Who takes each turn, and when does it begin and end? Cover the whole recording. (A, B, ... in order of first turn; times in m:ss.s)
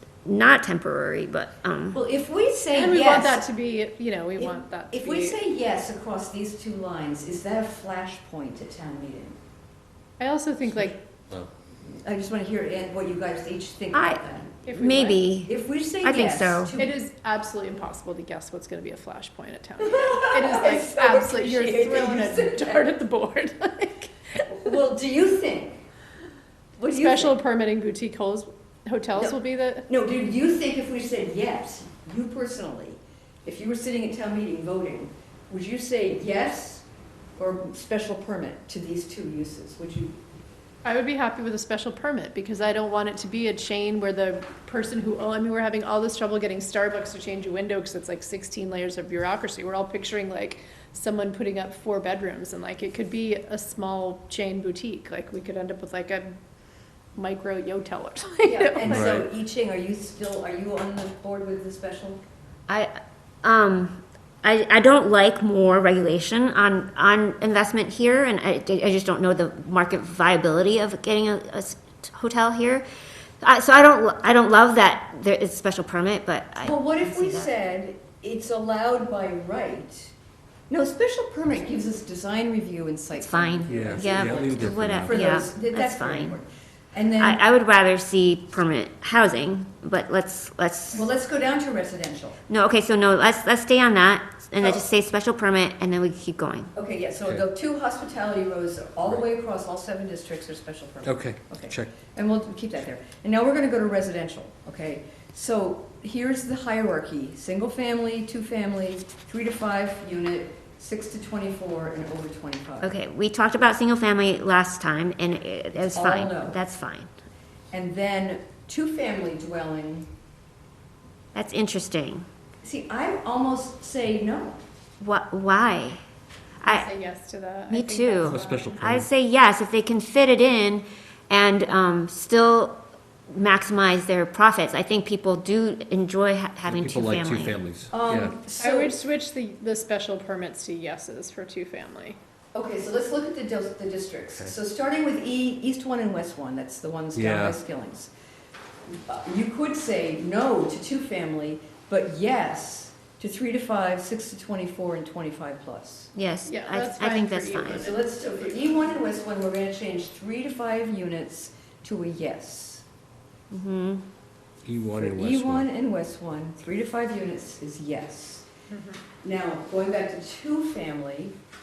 0:00.2-0:02.0 A
0:01.9-0:03.4 B
0:02.7-0:05.4 C
0:04.4-0:09.4 B
0:10.2-0:11.0 C
0:12.0-0:14.7 B
0:13.9-0:14.2 A
0:14.6-0:15.3 C
0:14.7-0:16.7 A
0:15.5-0:16.9 B
0:16.8-0:24.7 C
0:19.8-0:22.9 B
0:24.5-0:25.8 B
0:26.8-0:27.3 B
0:26.9-0:29.9 C
0:29.1-0:36.8 B
0:37.4-0:40.2 B
0:40.8-0:56.4 C
0:57.2-0:59.1 C
0:58.4-1:02.2 B
0:58.8-0:59.3 D
1:02.7-1:12.8 A
1:13.4-1:17.5 A
1:16.6-1:20.1 B
1:20.7-1:27.4 B
1:23.2-1:26.4 A
1:23.7-1:25.2 D
1:27.2-1:31.0 A
1:30.9-1:32.4 B
1:32.5-1:36.7 A
1:36.7-1:52.9 B
1:41.0-1:42.0 D
1:52.8-1:57.1 A
1:55.7-1:56.6 B
1:57.7-2:00.1 B
2:01.3-2:02.2 A
2:02.6-2:04.6 B
2:05.0-2:06.0 A
2:06.6-2:06.9 A
2:06.6-2:08.8 C
2:07.7-2:17.6 A
2:08.2-2:09.1 D
2:16.7-2:18.4 D
2:17.9-2:19.0 B
2:18.6-2:22.2 C
2:22.5-2:28.1 B
2:27.1-2:27.6 D
2:29.1-2:36.1 B
2:36.1-2:37.9 A
2:36.5-2:39.0 C
2:37.6-2:42.8 B
2:43.5-2:44.0 A
2:44.6-2:45.7 D
2:45.0-2:48.5 B
2:48.7-2:49.0 C
2:49.2-2:51.4 B